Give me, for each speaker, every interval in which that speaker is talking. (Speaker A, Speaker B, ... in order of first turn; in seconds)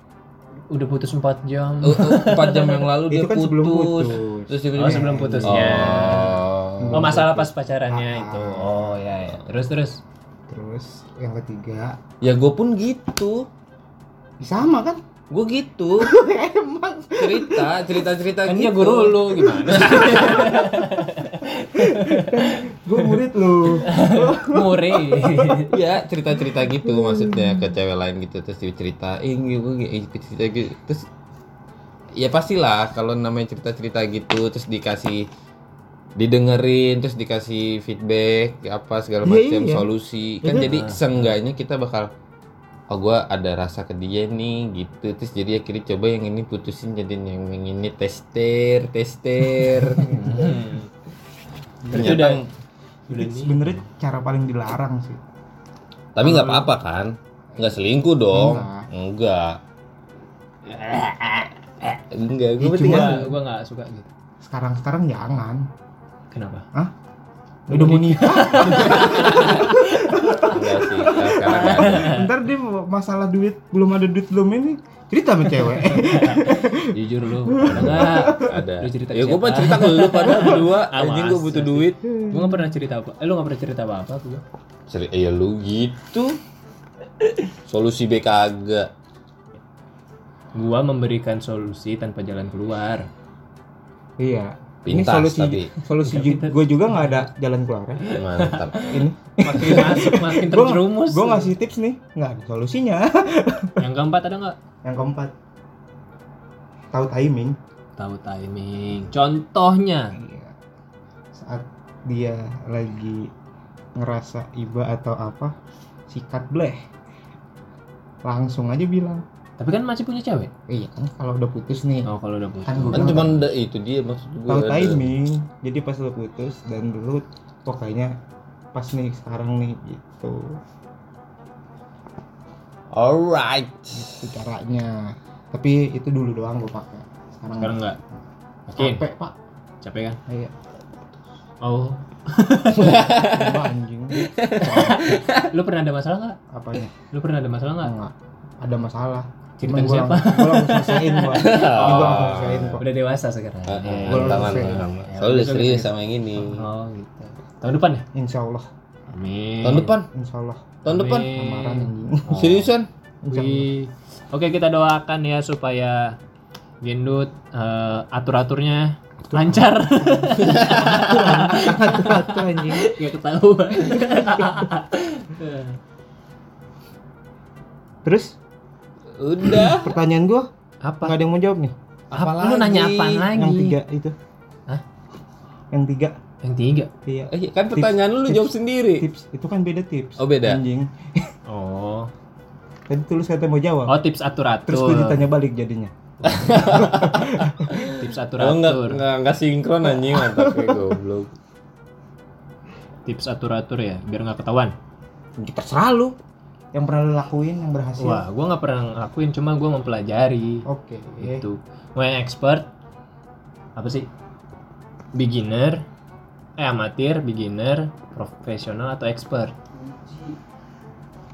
Speaker A: 0.7-2.9, 4.8-6.4, 6.9-10.0, 18.5-23.1, 23.8-25.7, 40.5-41.3, 50.0-50.9, 51.9-52.4, 53.1-53.6, 62.8-64.1, 66.3-66.7, 67.7-72.3, 75.6-84.4, 90.5-93.1, 96.0-97.2, 98.0-101.5, 103.8-104.6, 108.0-110.2, 119.6-120.5, 122.1-123.2, 137.6-138.0, 138.7-139.1, 139.8-140.2, 141.6-143.1, 144.6-146.4, 147.1-147.9, 149.6-158.1, 159.1-159.9, 160.9-162.7, 163.3-166.2, 166.8-175.8, 180.8-181.2, 182.1-183.8, 186.4-186.9, 191.5-192.1, 193.9-195.2, 196.3-196.7, 197.9-199.0, 203.1-204.8, 208.0-210.7, 211.2-212.7, 213.8-214.1, 215.1-215.8, 216.6-219.6
Speaker B: 1.8-7.2, 12.2-13.5, 15.3-16.1, 17.2-20.6, 25.7-31.1, 32.2-35.3, 36.2-42.1, 42.9-50.4, 51.9-52.5, 56.1-59.6, 60.7-63.2, 68.7-69.7, 70.5-72.2, 77.7-82.0, 84.9-86.4, 87.7-88.9, 94.8-95.7, 98.1-98.9, 122.9-125.1, 132.9-134.3, 142.8-143.7, 144.2-145.5, 151.3-152.8, 153.7-156.6, 159.6-160.1, 160.8-161.3, 162.3-162.9, 170.4-171.4, 179.2-179.9, 182.1-183.3, 187.3-189.1, 190.2-190.6, 196.2-201.3
Speaker C: 3.1-6.2, 6.8-9.0, 10.5-12.0, 14.4-15.0, 16.0-17.7, 19.5-21.0, 21.8-25.6, 26.8-27.6, 39.2-39.9, 40.4-40.8, 51.9-52.3, 53.1-55.2, 56.2-56.7, 58.3-58.9, 62.6-63.3, 64.4-65.7, 67.7-77.0, 77.5-78.6, 82.1-82.6, 94.2-98.1, 98.8-103.8, 104.8-105.3, 106.9-107.6, 110.2-110.5, 111.3-113.3, 114.0-115.5, 116.1-116.8, 118.2-119.2, 120.7-122.1, 122.7-123.5, 124.5-128.1, 128.7-130.6, 133.9-137.8, 138.8-139.3, 140.3-140.5, 142.8-145.0, 146.5-146.9, 147.8-152.8, 154.1-154.8, 158.1-158.7, 160.1-162.4, 163.2-163.7, 169.3-173.0, 178.0-178.4, 179.5-180.5, 181.0-181.8, 183.3-184.2, 185.7-186.2, 187.1-191.3, 192.9-194.0, 194.7-195.9, 196.6-197.9, 200.0-200.9, 205.4-206.2, 206.7-208.2, 210.7-211.4